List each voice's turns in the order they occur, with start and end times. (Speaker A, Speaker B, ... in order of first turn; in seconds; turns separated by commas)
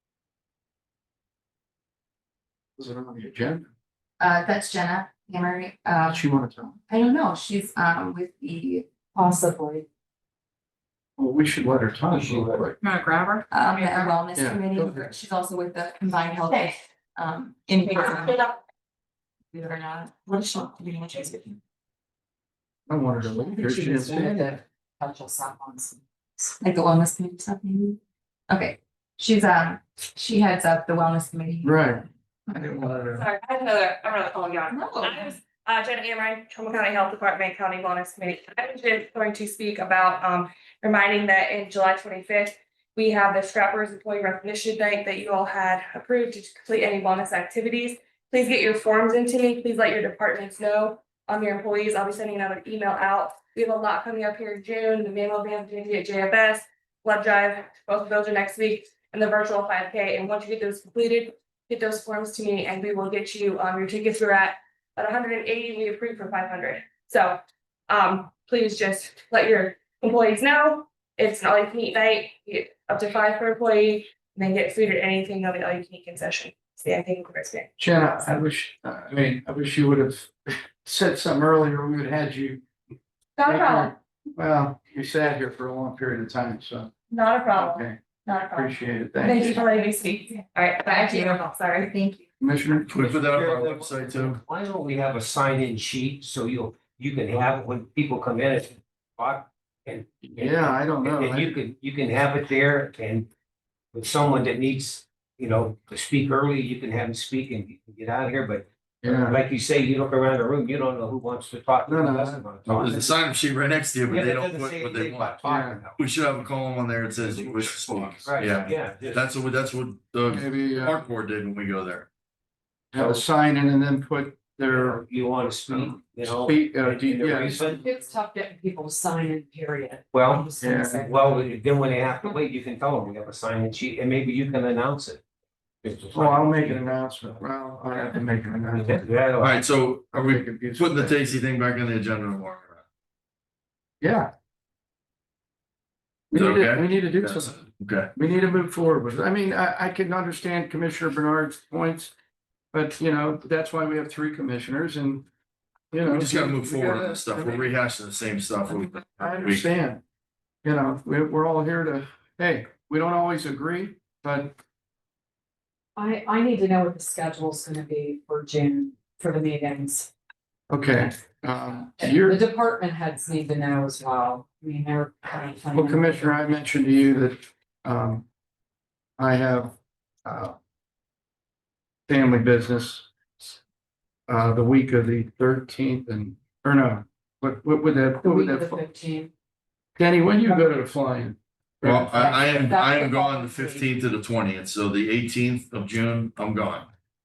Speaker A: 2.8-3.7, Speaker B: 4.2-6.2, Speaker A: 6.1-6.8, Speaker B: 6.9-8.9, Speaker C: 9.1-9.9, Speaker A: 11.2-12.8, Speaker D: 12.1-12.6, Speaker B: 13.5-18.4, Speaker E: 13.8-14.1, Speaker A: 14.3-15.2, Speaker E: 17.9-18.5, Speaker B: 19.5-21.6, Speaker A: 22.9-24.6, Speaker C: 23.2-26.0, Speaker B: 26.4-31.8, Speaker A: 31.6-33.3, Speaker E: 33.1-78.4, Speaker B: 34.7-35.3, Speaker A: 77.8-82.6, Speaker E: 83.4-84.0, Speaker A: 83.5-86.9, Speaker E: 87.1-91.9, Speaker A: 87.5-88.0, Speaker A: 88.5-89.6, Speaker B: 90.9-92.2, Speaker A: 92.4-93.1, Speaker F: 92.9-94.4, Speaker D: 93.1-103.3, Speaker A: 100.2-101.6, Speaker D: 103.9-113.2, Speaker A: 109.0-109.4, Speaker A: 111.8-113.0, Speaker F: 112.7-115.5, Speaker D: 114.1-116.0, Speaker A: 115.5-115.8, Speaker F: 116.0-122.1, Speaker D: 117.2-119.3, Speaker A: 120.3-121.0, Speaker A: 122.9-128.0, Speaker D: 124.7-127.8, Speaker C: 127.6-131.5, Speaker D: 130.1-130.5, Speaker A: 130.6-131.0, Speaker D: 131.0-135.2, Speaker D: 135.8-136.8, Speaker A: 136.1-139.1, Speaker D: 138.7-139.6, Speaker F: 139.4-142.8, Speaker A: 140.1-141.4, Speaker A: 144.0-144.3, Speaker A: 146.3-147.7, Speaker F: 146.3-148.1, Speaker A: 148.2-152.1, Speaker A: 152.7-155.3, Speaker A: 155.9-157.7, Speaker F: 156.1-159.7, Speaker A: 159.1-160.0, Speaker A: 160.6-164.6, Speaker C: 166.0-170.1, Speaker A: 170.7-172.4, Speaker C: 172.0-176.4, Speaker A: 175.7-178.3, Speaker A: 179.2-180.6, Speaker A: 182.1-183.6, Speaker A: 184.3-188.8, Speaker C: 188.2-189.3, Speaker A: 190.0-192.4, Speaker F: 191.8-196.9, Speaker C: 192.2-193.9